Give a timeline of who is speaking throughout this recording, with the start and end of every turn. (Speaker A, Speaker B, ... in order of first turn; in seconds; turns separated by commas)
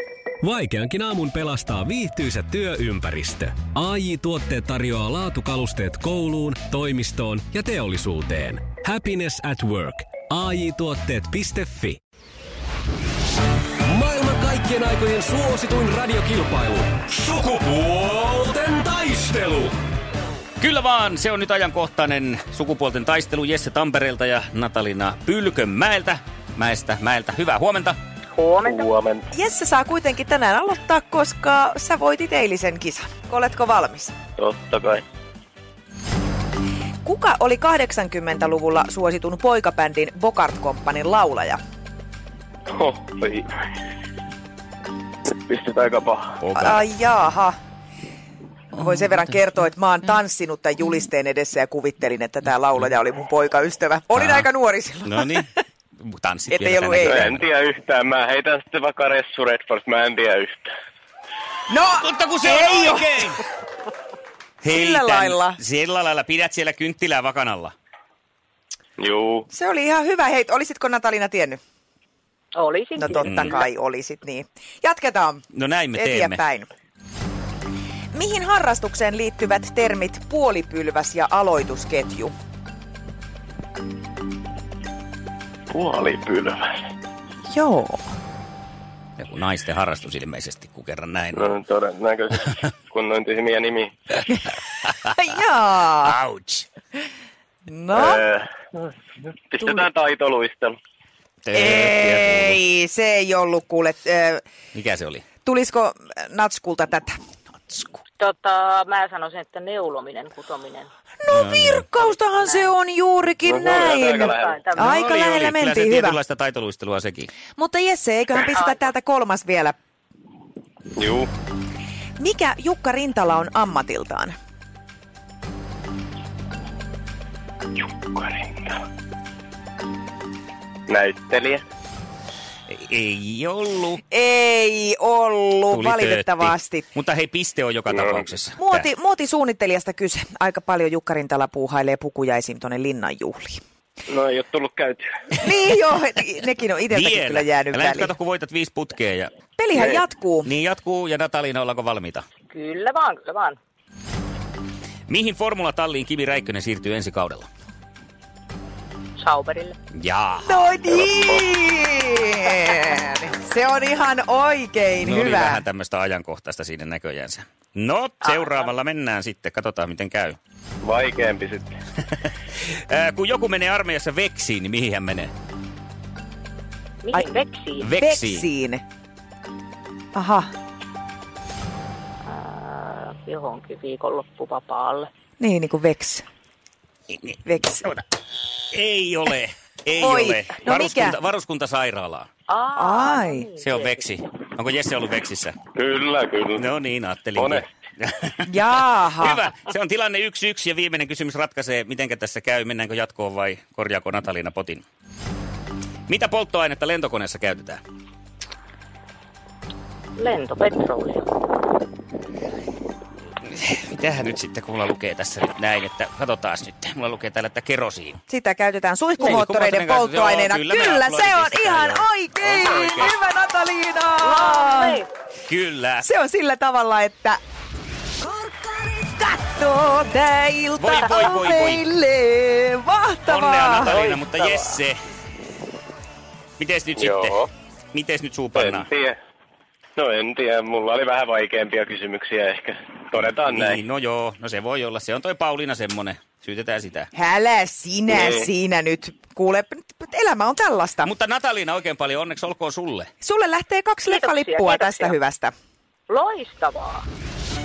Speaker A: 0.4-12.0, Speaker A: 13.8-19.7, Speaker B: 20.6-28.0, Speaker C: 28.3-28.9, Speaker D: 28.6-29.3, Speaker E: 29.3-34.1, Speaker D: 34.4-35.0, Speaker E: 37.0-41.6, Speaker D: 42.7-43.7, Speaker D: 45.3-46.4, Speaker B: 46.4-46.8, Speaker E: 46.5-47.5, Speaker E: 48.7-55.5, Speaker B: 54.2-54.4, Speaker B: 55.0-55.5, Speaker B: 56.0-57.4, Speaker E: 56.5-57.1, Speaker D: 57.0-60.7, Speaker E: 61.7-63.4, Speaker B: 61.9-63.4, Speaker B: 64.6-67.7, Speaker E: 64.7-65.6, Speaker D: 69.0-69.5, Speaker E: 69.5-71.6, Speaker C: 72.5-73.6, Speaker E: 73.0-76.7, Speaker B: 73.2-73.6, Speaker B: 75.5-76.4, Speaker E: 78.1-82.3, Speaker D: 85.7-86.8, Speaker E: 87.5-88.0, Speaker B: 89.2-91.5, Speaker D: 91.3-93.9, Speaker E: 95.0-96.2, Speaker B: 96.0-96.7, Speaker E: 97.7-98.2, Speaker D: 97.9-98.5, Speaker D: 99.5-100.8, Speaker E: 99.6-99.9, Speaker B: 101.5-102.6, Speaker E: 101.5-104.4, Speaker B: 104.7-105.2, Speaker E: 105.4-107.2, Speaker E: 107.7-108.0, Speaker C: 108.2-110.9, Speaker E: 111.2-116.2, Speaker B: 111.3-111.9, Speaker C: 112.0-112.7, Speaker D: 113.4-114.7, Speaker C: 113.8-114.8, Speaker B: 114.7-117.3, Speaker E: 117.5-119.8, Speaker D: 120.9-121.3, Speaker E: 122.2-124.3, Speaker D: 127.8-128.8, Speaker D: 130.9-131.6, Speaker B: 132.7-134.0, Speaker E: 134.1-136.9, Speaker B: 135.7-138.8, Speaker D: 137.9-138.2, Speaker E: 138.6-143.6, Speaker D: 144.1-145.1, Speaker E: 145.4-148.2, Speaker B: 146.9-149.3, Speaker E: 149.6-150.5, Speaker D: 149.7-150.0, Speaker B: 150.4-152.2, Speaker C: 152.5-153.6, Speaker B: 155.1-157.5, Speaker C: 159.2-159.8, Speaker B: 159.9-160.6, Speaker E: 160.4-165.7, Speaker D: 160.9-161.4, Speaker B: 165.0-170.4, Speaker C: 168.2-168.7, Speaker D: 170.8-171.7, Speaker B: 172.2-175.3, Speaker C: 177.0-177.9, Speaker E: 177.1-177.4, Speaker B: 177.8-178.4, Speaker E: 178.0-178.8, Speaker E: 180.1-180.5, Speaker C: 182.3-185.1, Speaker E: 185.4-186.2, Speaker E: 187.3-187.9, Speaker B: 188.7-192.3, Speaker E: 190.0-191.2, Speaker C: 192.5-194.0, Speaker E: 192.7-193.5, Speaker B: 193.6-195.5, Speaker D: 195.7-196.7, Speaker B: 196.6-204.8, Speaker D: 197.3-197.6, Speaker E: 198.4-199.4, Speaker B: 206.1-207.8, Speaker C: 210.2-211.3, Speaker B: 213.4-218.2, Speaker E: 218.3-225.0, Speaker B: 219.2-223.2, Speaker C: 224.2-225.1, Speaker B: 225.5-226.1, Speaker E: 226.0-227.4, Speaker E: 228.2-234.0, Speaker B: 230.8-231.8, Speaker B: 233.3-235.0, Speaker D: 233.8-234.6, Speaker B: 236.6-238.9, Speaker D: 237.0-237.5, Speaker D: 238.5-239.2, Speaker D: 240.0-243.8, Speaker B: 243.4-247.1, Speaker E: 247.1-251.1, Speaker D: 248.1-248.5, Speaker B: 251.0-253.1, Speaker E: 253.2-255.5, Speaker C: 254.1-255.2, Speaker C: 256.1-257.1